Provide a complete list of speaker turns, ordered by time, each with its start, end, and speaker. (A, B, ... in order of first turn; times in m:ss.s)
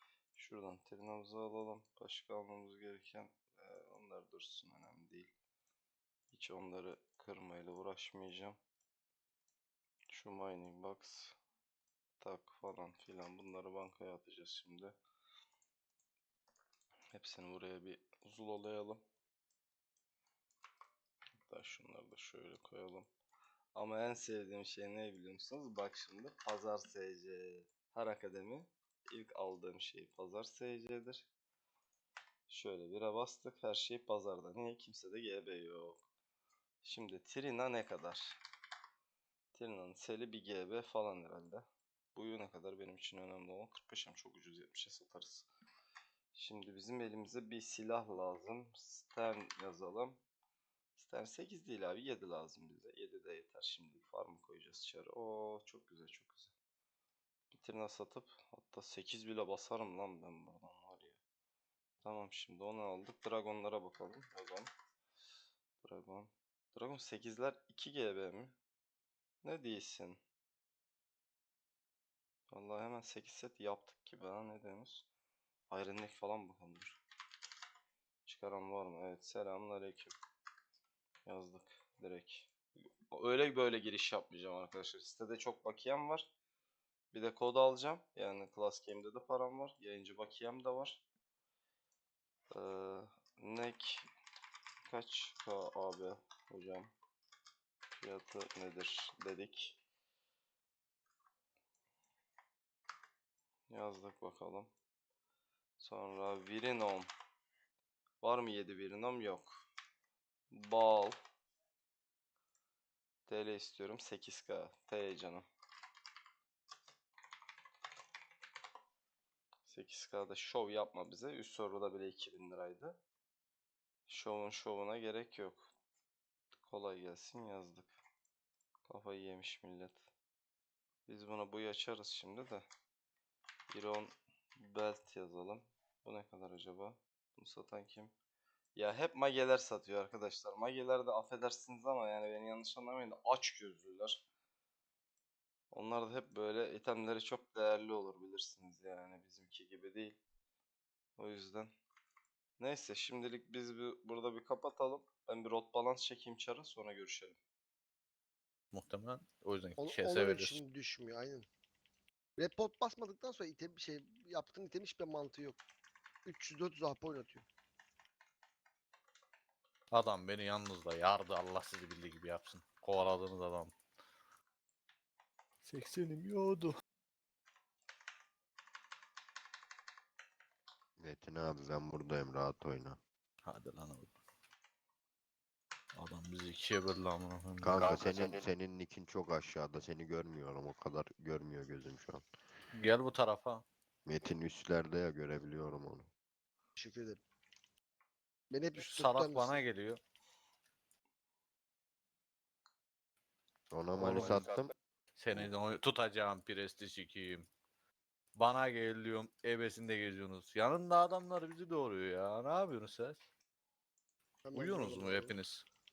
0:00.3-0:05.3 A
0:06.3-0:08.6 A
0:10.1-0:11.4 A
0:12.2-0:14.9 A
0:17.1-0:19.0 A
0:21.4-0:23.1 A
0:23.7-0:31.3 A
0:32.5-0:36.0 A
0:36.8-0:38.4 A
0:39.5-0:45.5 A
0:46.3-0:50.2 A
0:51.0-0:56.5 A
0:57.5-1:01.2 A
1:02.0-1:04.7 A
1:05.8-1:08.5 A
1:09.4-1:10.2 A
1:12.5-1:15.1 A
1:15.7-1:17.0 A
1:18.2-1:20.1 A
1:21.2-1:22.5 A
1:23.1-1:26.3 A
1:27.1-1:31.0 A
1:32.5-1:34.1 A
1:34.8-1:36.9 A
1:37.9-1:39.8 A
1:43.7-1:44.7 A
1:45.8-1:47.1 A
1:48.2-1:49.6 A
1:50.5-1:51.2 A
1:53.2-1:55.4 A
1:59.6-2:03.0 A
2:04.1-2:05.7 A
2:06.5-2:08.0 A
2:08.8-2:10.1 A
2:11.1-2:12.6 A
2:13.7-2:18.1 A
2:18.8-2:24.2 A
2:25.7-2:30.2 A
2:31.2-2:31.7 A
2:32.6-2:37.4 A
2:38.7-2:40.6 B
2:39.8-2:41.5 C
2:42.4-2:45.6 C
2:46.2-2:47.5 C
2:49.9-2:53.7 B
2:55.6-2:56.8 B
3:01.0-3:03.0 D
3:03.4-3:04.1 B
3:06.0-3:08.4 B
3:07.6-3:12.2 D
3:12.7-3:13.6 B
3:14.0-3:16.1 D
3:16.8-3:17.2 C
3:18.5-3:19.6 C
3:18.7-3:20.0 B
3:23.7-3:24.7 D
3:23.9-3:24.5 B
3:25.2-3:27.5 B
3:28.4-3:33.2 B
3:34.4-3:35.4 C
3:34.5-3:35.6 B